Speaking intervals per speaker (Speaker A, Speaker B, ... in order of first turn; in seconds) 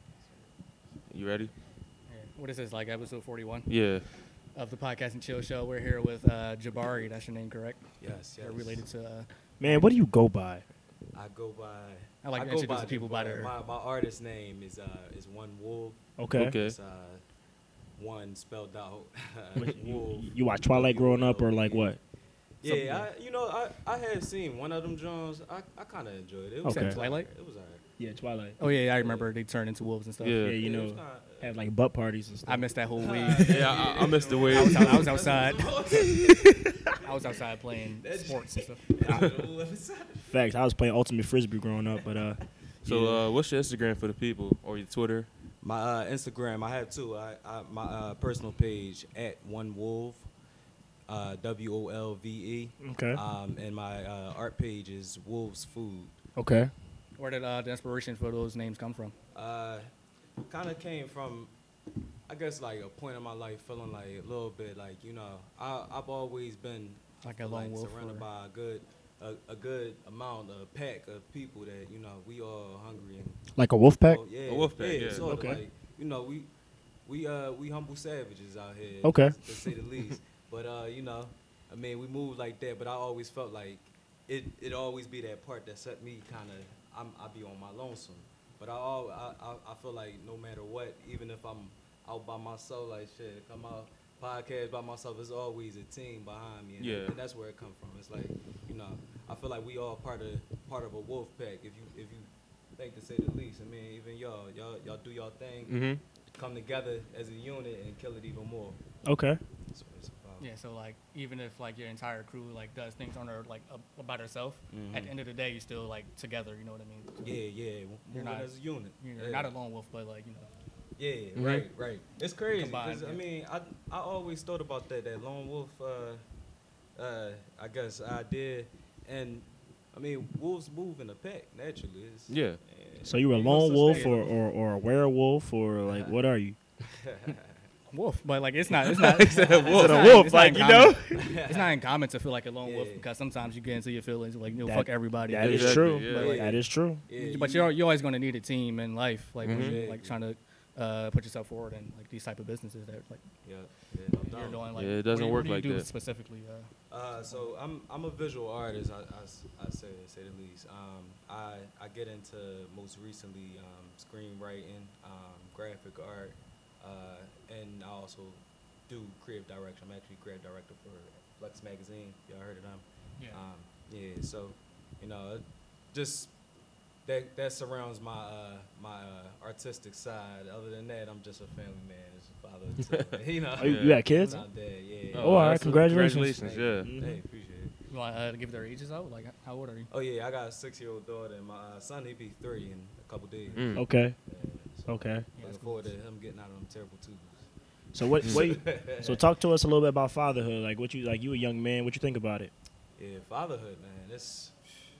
Speaker A: 1.1-1.5, 3.7-4.0, 16.3-16.8, 30.2-30.6, 33.4-35.1, 42.8-45.3, 74.5-75.3, 96.8-97.1, 105.7-106.0, 121.3-121.7, 132.3-132.6, 139.2-139.8, 145.4-146.4, 149.4-149.8, 154.7-155.8, 182.9-184.0, 185.1-186.9, 193.5-193.8
Speaker B: 2.1-3.7, 4.5-9.9, 12.2-13.5, 26.6-27.3, 28.6-30.4, 32.5-33.8, 34.5-35.7, 37.0-38.8, 57.2-59.1, 67.2-68.2, 110.4-117.4, 118.1-120.5, 122.6-123.2, 133.8-134.2, 137.9-146.5, 147.1-153.2, 154.2-156.7, 187.9-189.9, 195.4-195.9
Speaker C: 8.0-8.8, 11.1-17.2, 18.0-21.9, 22.6-27.8, 28.6-29.3, 30.5-31.5, 33.0-37.2, 38.0-40.3, 45.6-50.3, 51.1-56.2, 59.3-59.9, 60.4-61.5, 62.3-73.5, 74.0-76.5, 77.0-105.8, 106.3-108.8, 109.7-110.5, 114.7-115.1, 117.2-119.5, 121.0-126.2, 127.0-134.3, 136.9-137.5, 139.2-140.3, 141.1-141.8, 142.6-143.0, 146.1-147.7, 149.4-150.2, 153.4-154.6, 156.9-176.3, 177.1-187.7, 189.9-197.4, 198.1-199.2, 203.0-204.6
Speaker D: 9.6-10.6, 16.2-16.5, 19.5-22.0, 22.6-23.1, 26.6-27.0, 28.0-28.6, 30.4-32.7, 34.7-35.0, 35.9-36.7, 39.0-39.3, 40.3-43.2, 52.8-53.2, 56.4-56.7, 73.5-74.2, 75.2-75.6, 79.0-79.3, 109.0-109.4, 133.0-136.6, 139.7-141.2, 144.6-147.0, 183.6-184.4, 185.2-187.2, 193.7-194.2, 194.9-195.2, 197.9-202.5